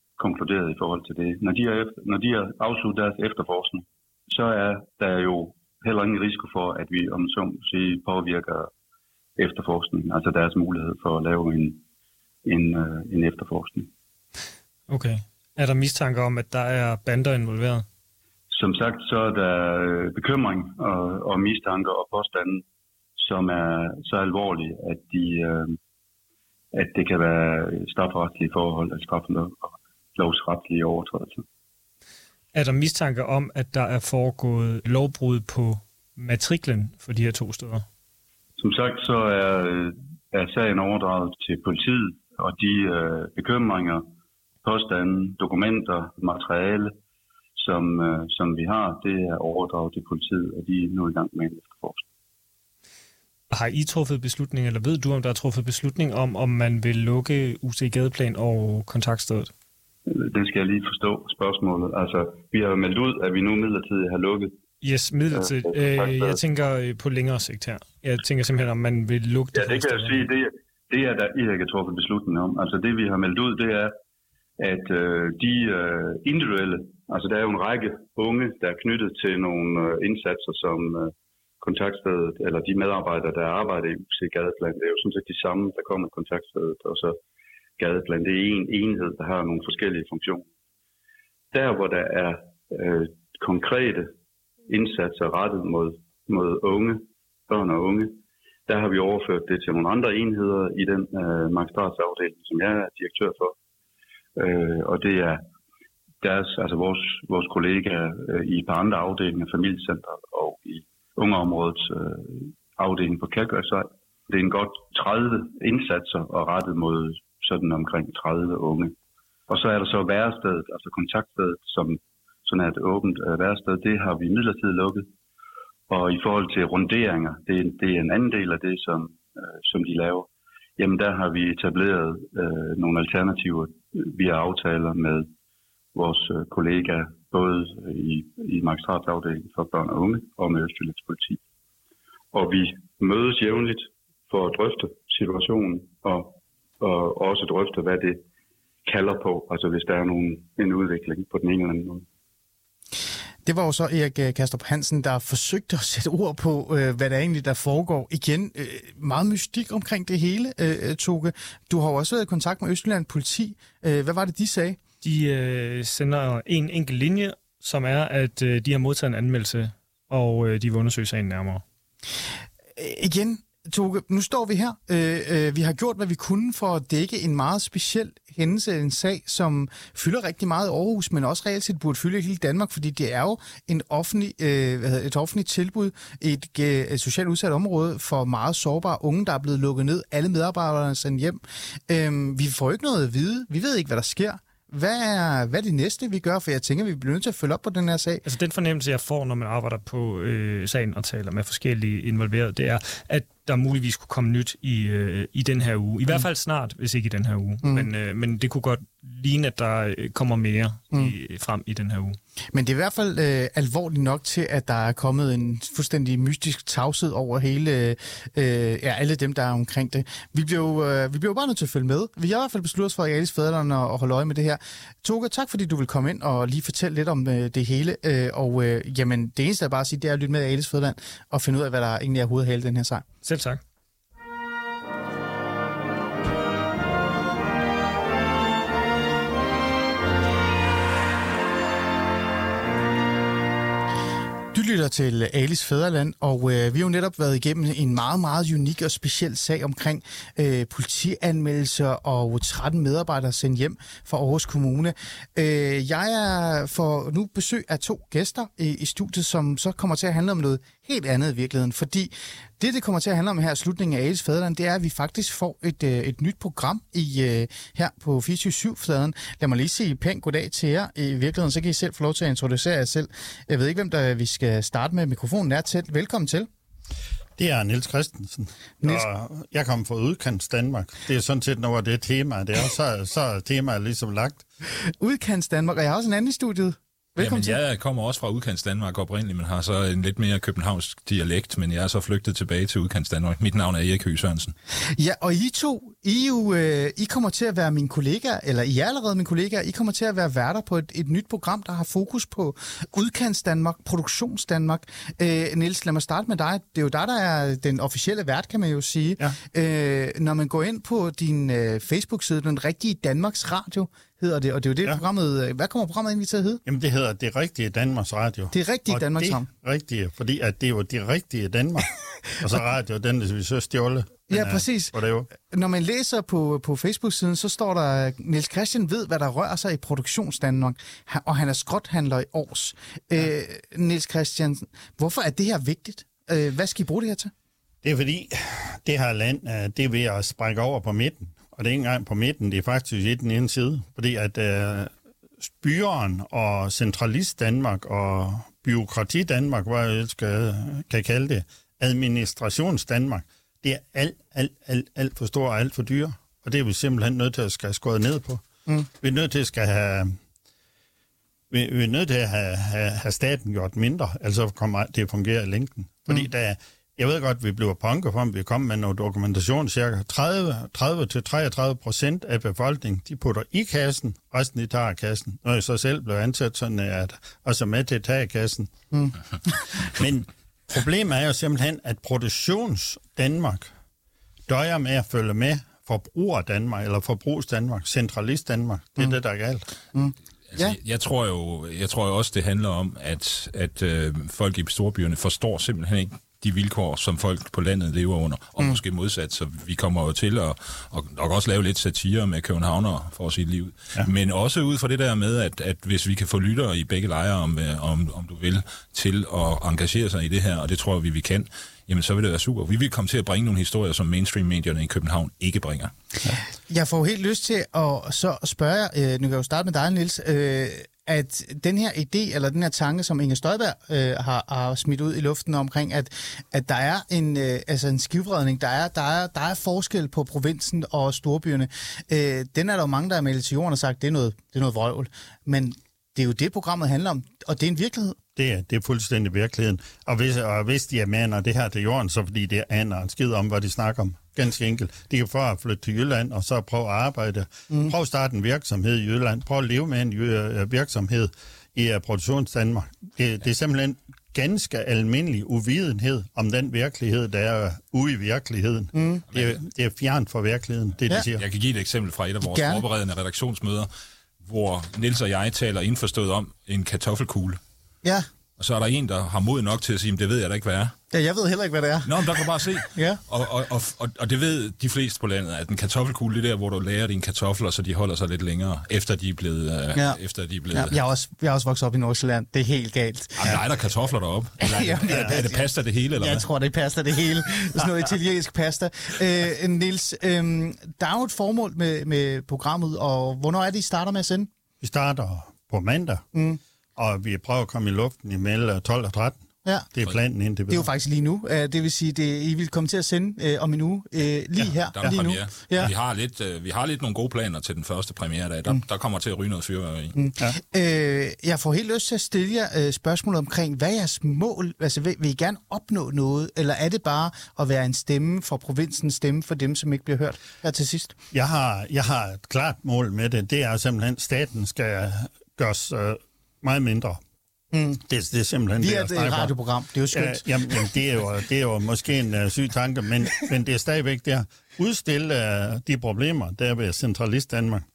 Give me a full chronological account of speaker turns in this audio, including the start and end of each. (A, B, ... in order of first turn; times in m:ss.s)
0:00.2-0:08.7 A
0:09.4-0:11.8 A
0:12.4-0:13.9 A
0:14.9-0:17.8 B
0:18.5-0:22.6 A
0:23.2-0:25.8 A
0:26.7-0:31.4 A
0:32.5-0:37.8 B
0:38.6-0:44.0 A
0:44.6-0:47.0 A
0:47.6-0:52.0 A
0:53.5-0:59.5 B
1:00.1-1:04.6 A
1:04.8-1:10.3 B
1:05.3-1:06.4 A
1:09.5-1:14.0 A
1:14.6-1:27.2 A
1:27.8-1:30.5 A
1:31.5-1:34.1 A
1:34.7-1:43.5 A
1:44.4-1:45.4 A
1:46.2-1:59.0 A
1:59.5-2:05.1 A
2:05.9-2:15.3 A
2:15.9-2:21.4 A
2:22.3-2:28.2 A
2:28.8-2:32.0 A
2:33.4-2:44.8 C
2:45.0-2:51.6 B
2:52.8-3:18.2 C
3:18.2-3:32.2 B
3:32.5-3:53.0 C
3:53.2-3:53.6 B
4:04.5-4:36.5 C
4:37.4-4:44.4 D
4:44.8-4:47.6 C
4:47.2-4:54.5 E
4:55.0-5:16.6 C
5:16.6-5:25.3 D
5:18.5-5:19.5 C
5:24.3-5:37.3 C
5:37.8-5:58.4 D
5:59.0-6:00.2 D
6:01.5-6:18.7 D
6:19.8-6:23.7 D
6:24.5-6:29.6 D
6:29.9-6:30.8 C
6:30.5-6:55.9 E
6:56.7-7:18.2 C
7:18.4-7:41.4 D
7:38.9-7:39.2 C
7:41.3-7:43.9 E
7:42.4-7:42.8 C
7:44.4-7:47.6 E
7:48.6-7:50.9 E
7:51.1-7:53.2 C
7:52.0-8:01.0 E
8:00.7-8:03.6 C
8:03.4-8:06.5 E
8:04.6-8:05.6 C
8:06.2-8:14.5 C
8:14.8-8:16.2 D
8:16.3-8:16.6 C
8:17.0-8:19.4 D
8:19.6-8:19.9 C
8:19.9-8:20.9 D
8:20.7-8:25.9 C
8:24.6-8:25.2 D
8:24.9-8:30.2 E
8:30.1-8:41.2 C
8:41.3-8:47.2 D
8:47.7-8:48.0 C
8:48.1-8:49.5 D
8:48.8-8:50.9 C
8:50.1-8:57.8 D